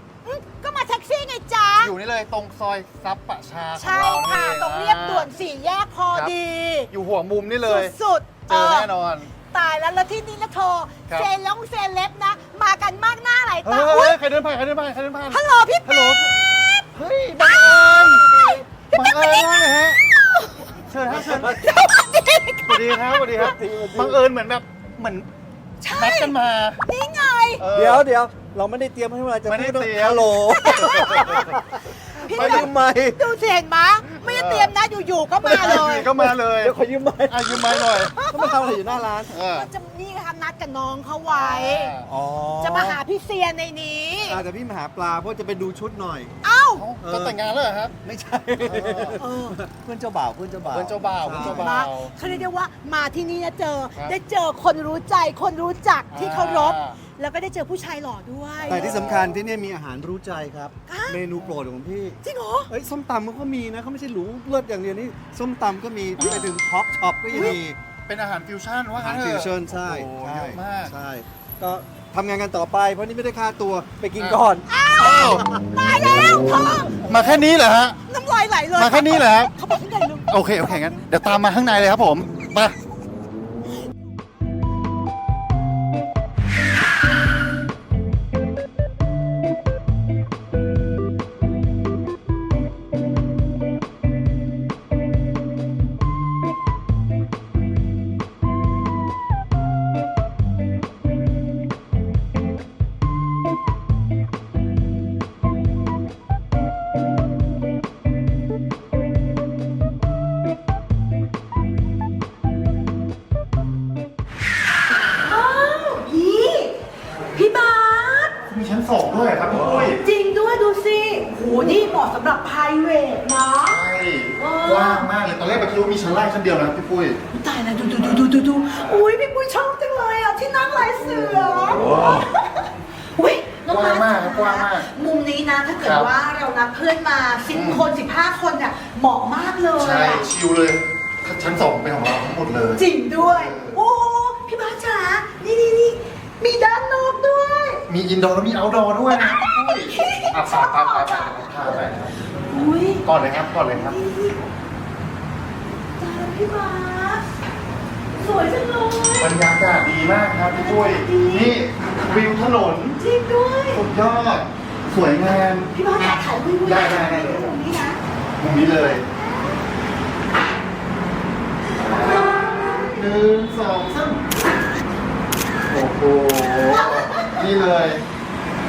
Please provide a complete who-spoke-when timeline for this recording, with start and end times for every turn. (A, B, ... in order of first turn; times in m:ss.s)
0:00.2-0:01.9 A
0:01.8-0:05.3 B
0:03.8-0:06.9 A
0:06.9-0:09.4 B
0:07.6-0:08.9 A
0:09.4-0:14.2 A
0:13.6-0:16.3 B
0:15.3-0:16.9 A
0:16.9-0:20.0 B
0:17.4-0:20.6 A
0:20.9-0:21.7 B
0:21.2-0:21.7 C
0:21.4-0:23.5 A
0:22.7-0:25.3 B
0:23.4-0:24.2 C
0:25.8-0:27.7 A
0:25.9-0:26.8 B
0:27.6-0:28.1 B
0:27.7-0:31.5 C
0:29.4-0:31.3 B
0:30.4-0:31.5 A
0:32.1-0:36.1 A
0:32.2-0:33.2 C
0:32.3-0:32.8 B
0:34.2-0:34.7 B
0:35.4-0:38.2 B
0:35.5-0:39.4 C
0:37.5-0:42.0 A
0:39.3-0:39.7 B
0:41.3-0:42.1 B
0:42.0-0:43.0 C
0:42.6-0:44.4 A
0:44.2-0:46.3 C
0:46.4-0:46.9 A
0:46.7-0:48.0 B
0:47.0-0:47.4 C
0:48.0-0:51.7 C
0:48.6-0:49.2 B
0:49.2-0:49.6 A
0:50.7-0:52.5 B
0:51.4-0:59.4 A
0:56.1-0:57.0 B
0:58.7-0:59.3 B
0:58.7-1:02.2 C
1:00.9-1:01.2 A
1:01.3-1:01.6 B
1:02.2-1:02.7 A
1:02.7-1:07.8 C
1:06.2-1:06.6 B
1:07.3-1:07.6 A
1:08.1-1:11.0 B
1:08.9-1:16.7 C
1:14.2-1:15.6 B
1:14.7-1:17.4 A
1:17.0-1:18.0 B
1:18.1-1:21.0 A
1:18.8-1:19.5 B
1:20.3-1:22.8 B
1:55.2-1:56.8 A
1:57.3-1:58.3 A
1:58.5-2:00.0 B
1:59.8-2:05.1 A
2:03.6-2:07.2 B
2:07.3-2:12.6 A
2:08.7-2:09.0 B
2:11.1-2:12.0 B
2:13.2-2:20.3 A
2:13.7-2:14.9 B
2:15.8-2:16.1 B
2:17.5-2:17.9 B
2:19.8-2:23.8 B
2:22.7-2:27.8 A
2:27.9-2:32.1 B
2:29.3-2:34.4 A
2:33.0-2:34.0 B
2:36.0-2:37.2 A
2:38.2-2:39.5 A
2:39.2-2:43.0 B
2:40.5-2:41.6 A
2:43.0-2:43.8 A
2:43.7-2:45.7 B
2:45.7-2:48.0 A
2:46.6-2:47.6 B
2:48.4-2:49.0 B
2:49.2-2:49.5 A
2:51.8-2:54.3 B
2:51.8-2:53.0 A
2:55.7-2:58.0 B
2:56.7-2:57.4 A